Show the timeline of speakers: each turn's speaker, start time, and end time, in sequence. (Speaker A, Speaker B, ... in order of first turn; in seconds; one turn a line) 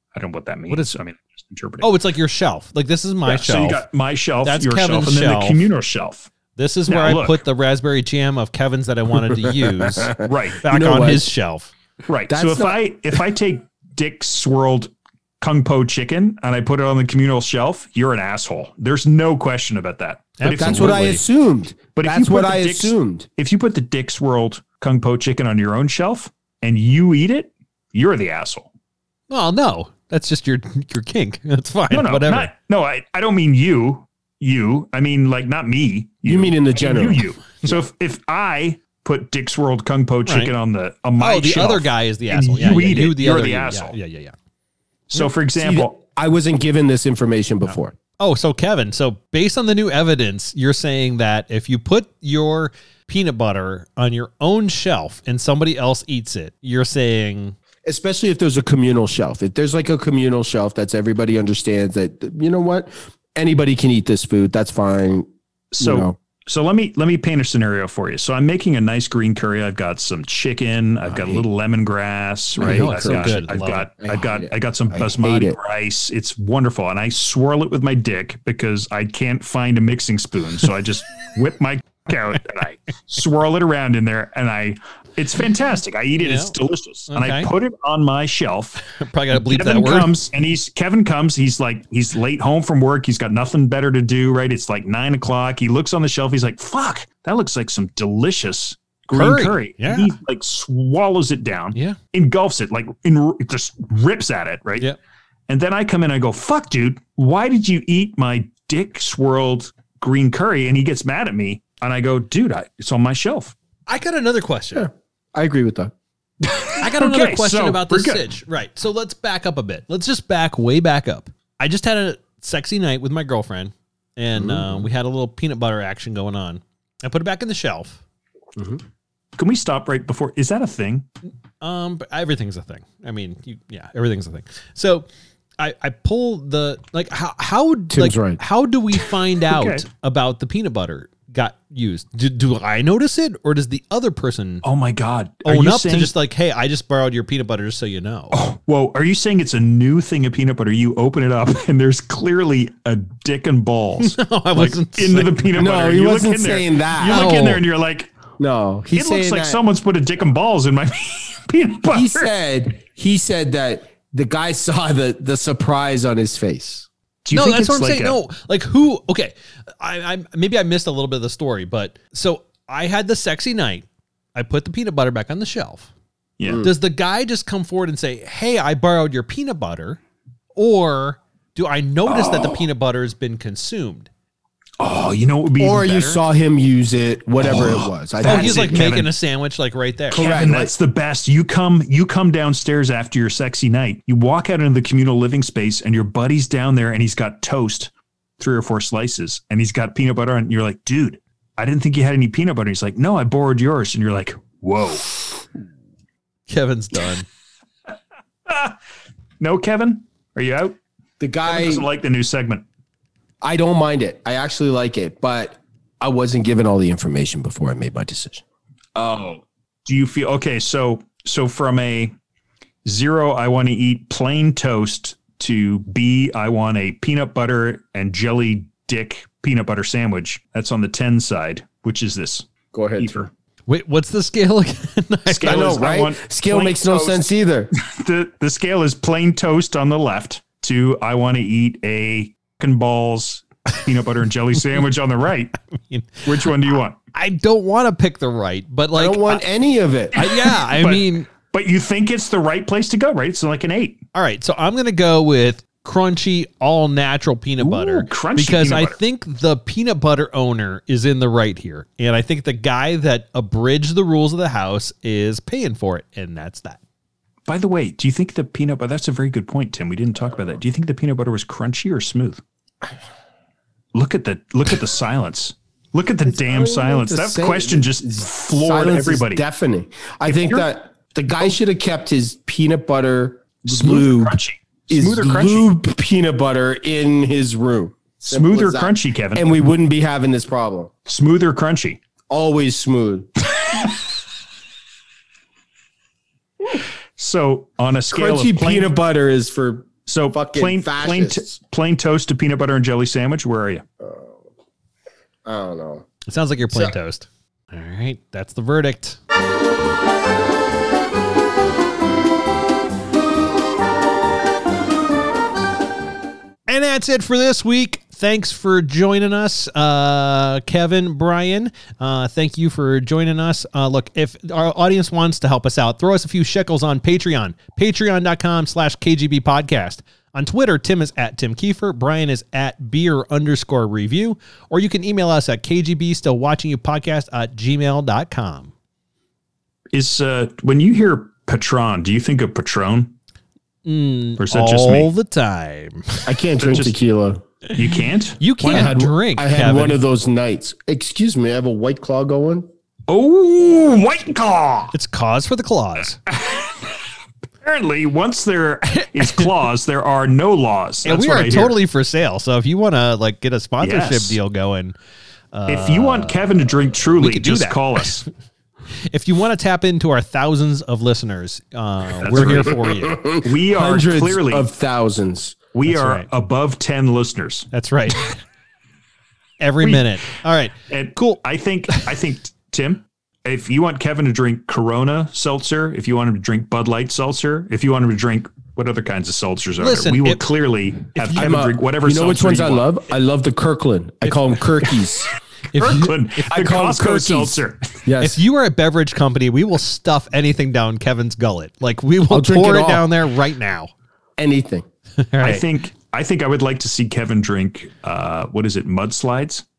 Speaker A: 0.1-1.9
Speaker B: 0.7-0.9
Speaker B: 1.8-3.8
Speaker A: 3.2-6.3
Speaker B: 4.4-5.6
Speaker B: 6.5-11.7
Speaker A: 6.9-7.4
Speaker C: 9.5-11.3
Speaker A: 10.2-10.6
Speaker A: 12.1-21.2
Speaker C: 12.3-12.8
Speaker B: 20.4-21.2
Speaker C: 20.5-23.3
Speaker A: 21.9-28.7
Speaker B: 29.3-32.5
Speaker A: 31.9-44.0
Speaker C: 36.2-37.7
Speaker B: 40.2-40.5
Speaker B: 41.2-44.3
Speaker A: 45.1-45.9
Speaker C: 45.1-47.9
Speaker B: 48.2-57.5
Speaker C: 57.8-65.3
Speaker A: 65.7-104.9
Speaker C: 65.8-66.1
Speaker C: 71.1-71.4
Speaker C: 72.6-75.6
Speaker B: 72.6-73.9
Speaker B: 86.2-86.5
Speaker B: 87.1-87.5
Speaker B: 88.8-90.2
Speaker B: 99.1-100.1
Speaker A: 105.5-113.5
Speaker B: 113.9-114.9
Speaker C: 114.7-115.9
Speaker A: 116.4-118.2
Speaker B: 116.8-128.0
Speaker C: 124.3-124.8
Speaker C: 128.6-128.8
Speaker A: 129.4-131.1
Speaker B: 131.6-135.1
Speaker B: 135.6-144.6
Speaker C: 137.9-138.4
Speaker A: 139.5-139.8
Speaker A: 144.6-146.1
Speaker B: 145.4-148.4
Speaker A: 148.3-158.1
Speaker B: 154.0-155.6
Speaker C: 155.6-157.4
Speaker B: 157.0-157.6
Speaker C: 158.4-159.6
Speaker A: 158.9-162.3
Speaker C: 161.8-166.9
Speaker A: 167.2-168.2
Speaker B: 167.3-175.9
Speaker A: 176.4-176.7
Speaker C: 176.4-176.7
Speaker B: 176.6-180.0
Speaker B: 180.6-184.1
Speaker A: 182.1-182.6
Speaker A: 184.8-186.2
Speaker C: 185.6-188.9
Speaker A: 187.4-189.1
Speaker B: 188.2-190.3
Speaker C: 190.1-190.7
Speaker A: 190.1-205.1
Speaker B: 206.5-207.3
Speaker A: 208.5-208.7
Speaker A: 209.4-210.8
Speaker C: 211.2-211.8
Speaker A: 211.4-212.6
Speaker C: 213.4-218.4
Speaker C: 218.9-219.4
Speaker A: 219.8-222.1
Speaker A: 222.8-233.3
Speaker C: 232.7-233.1
Speaker B: 233.7-235.8
Speaker A: 235.3-245.6
Speaker C: 235.4-237.7
Speaker B: 245.9-246.2
Speaker A: 246.2-246.9
Speaker B: 247.1-249.4
Speaker C: 248.9-250.3
Speaker B: 250.1-251.3
Speaker A: 250.5-254.0
Speaker B: 254.1-266.8
Speaker A: 257.6-259.0
Speaker A: 267.5-272.4
Speaker A: 273.9-279.4
Speaker C: 276.3-290.9
Speaker A: 280.2-280.7
Speaker A: 283.7-285.7
Speaker A: 288.3-289.5
Speaker A: 291.1-292.0
Speaker C: 292.3-293.9
Speaker A: 297.2-298.9
Speaker C: 298.1-301.5
Speaker A: 300.1-303.8
Speaker C: 304.0-304.4
Speaker C: 305.4-306.1
Speaker B: 306.2-309.2
Speaker B: 316.7-338.7
Speaker A: 339.9-343.1
Speaker B: 343.8-346.3
Speaker A: 344.4-345.1
Speaker C: 346.2-347.4
Speaker A: 346.6-347.0
Speaker A: 347.8-349.0
Speaker B: 347.8-350.0
Speaker C: 348.6-352.7
Speaker A: 353.1-354.9
Speaker B: 354.9-356.2
Speaker A: 356.3-357.0
Speaker A: 357.6-361.8
Speaker B: 361.0-364.9
Speaker A: 363.8-364.4
Speaker B: 365.5-368.2
Speaker A: 365.7-368.2
Speaker B: 369.1-373.2
Speaker A: 372.2-374.7
Speaker C: 372.3-375.6
Speaker A: 375.7-377.7
Speaker B: 375.9-376.2
Speaker B: 377.7-378.3
Speaker B: 379.6-381.4
Speaker A: 379.8-380.2
Speaker A: 380.9-392.9
Speaker B: 389.8-390.4
Speaker B: 391.1-391.6
Speaker C: 391.3-395.3
Speaker B: 395.7-396.7
Speaker A: 395.8-398.0
Speaker C: 396.0-398.4
Speaker B: 398.2-403.9
Speaker C: 402.3-403.1
Speaker C: 404.4-404.9
Speaker B: 405.2-405.6
Speaker A: 405.4-409.6